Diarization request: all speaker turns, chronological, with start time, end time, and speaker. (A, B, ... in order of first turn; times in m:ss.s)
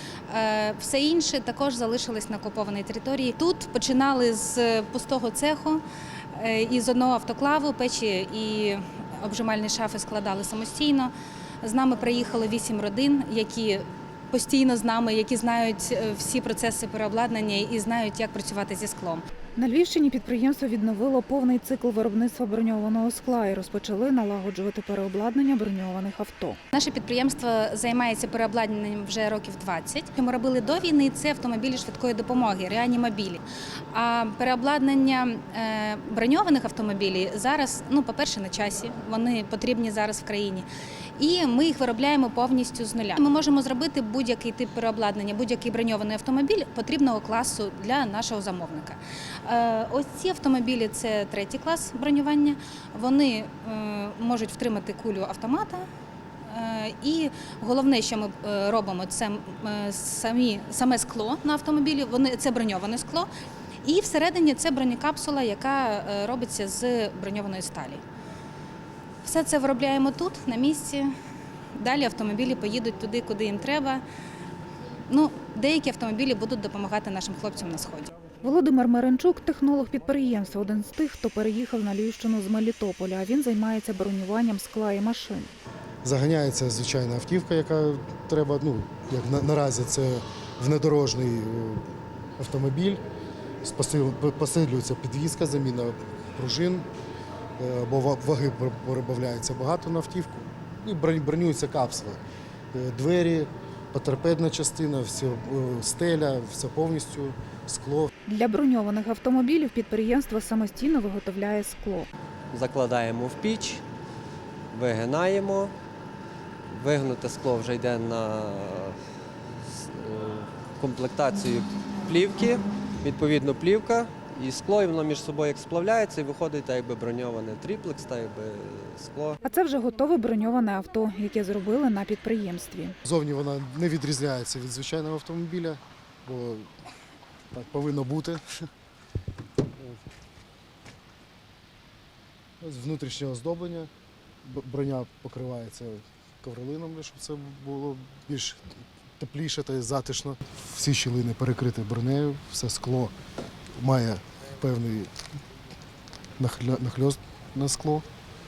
0:00.3-0:05.8 A
0:06.3-0:19.2 A
0:19.6-0:26.6 B
0:26.7-0:55.9 A
0:56.4-1:03.3 A
1:03.8-1:08.0 A
1:09.2-1:11.1 A
1:11.8-1:14.0 A
1:15.1-1:18.1 A
1:18.4-1:25.5 B
1:26.0-1:33.0 C
1:33.6-1:36.9 C
1:37.6-1:42.2 C
1:42.7-1:48.1 C
1:48.3-1:52.1 B
1:52.5-1:53.8 D
1:54.7-1:55.7 D
1:56.7-1:59.0 D
1:59.6-2:09.4 D
2:09.4-2:12.9 B
2:13.0-2:16.7 C
2:17.5-2:18.4 C
2:22.6-2:23.9 C
2:24.4-2:33.1 C
2:33.8-2:35.1 C
2:36.4-2:38.0 C